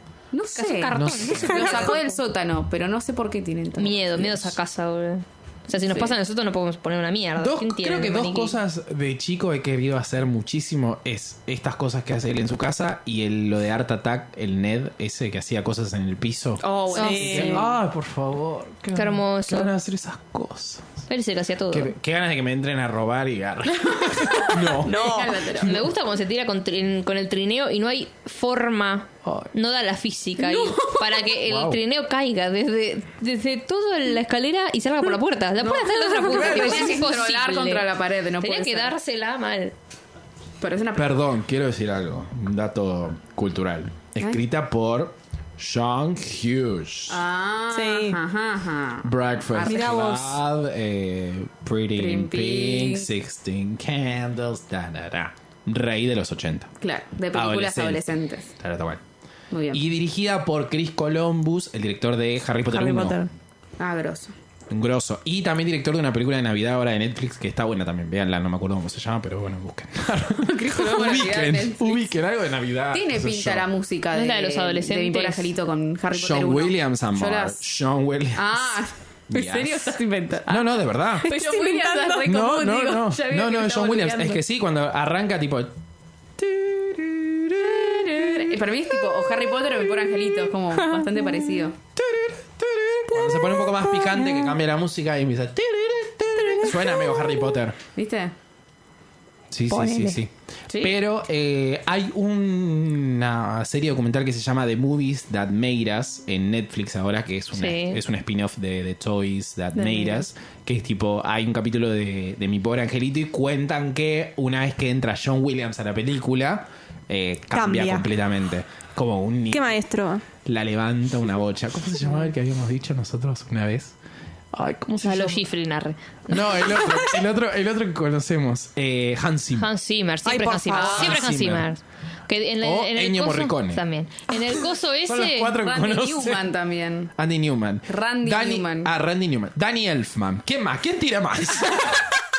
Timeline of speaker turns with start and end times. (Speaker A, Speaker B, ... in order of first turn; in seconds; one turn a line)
Speaker A: 0.3-4.5
Speaker B: 0.6-2.2
Speaker C: 0.9-1.8
Speaker B: 3.8-8.6
Speaker A: 5.8-6.2
Speaker C: 7.4-20.9
Speaker A: 16.6-17.7
Speaker B: 16.9-17.2
Speaker D: 16.9-17.7
Speaker B: 18.9-19.7
Speaker B: 21.1-21.9
Speaker C: 21.7-25.9
Speaker A: 24.3-25.8
Speaker D: 24.8-25.5
Speaker B: 25.5-39.7
Speaker C: 29.2-29.5
Speaker A: 30.4-31.1
Speaker C: 31.5-31.8
Speaker A: 35.6-38.9
Speaker A: 40.6-41.1
Speaker C: 41.0-47.2
Speaker A: 47.1-50.0
Speaker D: 47.7-48.2
Speaker C: 49.0-56.7
Speaker D: 49.6-50.4
Speaker A: 52.0-53.1
Speaker A: 56.8-58.5
Speaker C: 57.3-59.0
Speaker A: 59.5-59.8
Speaker C: 59.7-63.2
Speaker D: 62.7-63.3
Speaker A: 63.8-64.3
Speaker C: 64.7-73.7
Speaker A: 70.4-72.2
Speaker A: 72.9-77.6
Speaker B: 74.1-75.5
Speaker C: 76.1-81.3
Speaker A: 78.3-84.4
Speaker D: 81.2-82.4
Speaker C: 82.2-85.8
Speaker C: 86.4-88.5
Speaker A: 88.1-91.8
Speaker D: 90.9-91.4
Speaker C: 92.0-97.8
Speaker D: 93.1-94.6
Speaker D: 96.6-97.3
Speaker A: 98.0-98.3
Speaker C: 99.5-119.8
Speaker D: 99.7-100.2
Speaker A: 100.7-101.0
Speaker B: 107.5-108.0
Speaker A: 109.8-110.2
Speaker D: 117.5-118.1
Speaker D: 119.5-120.2
Speaker C: 120.5-124.0
Speaker C: 124.5-125.4
Speaker B: 125.0-126.9
Speaker C: 126.3-129.7
Speaker B: 129.6-135.6
Speaker D: 130.2-131.2
Speaker C: 130.8-131.7
Speaker C: 132.6-133.8
Speaker C: 135.1-136.5
Speaker A: 135.6-137.1
Speaker C: 137.2-142.2
Speaker A: 137.9-138.9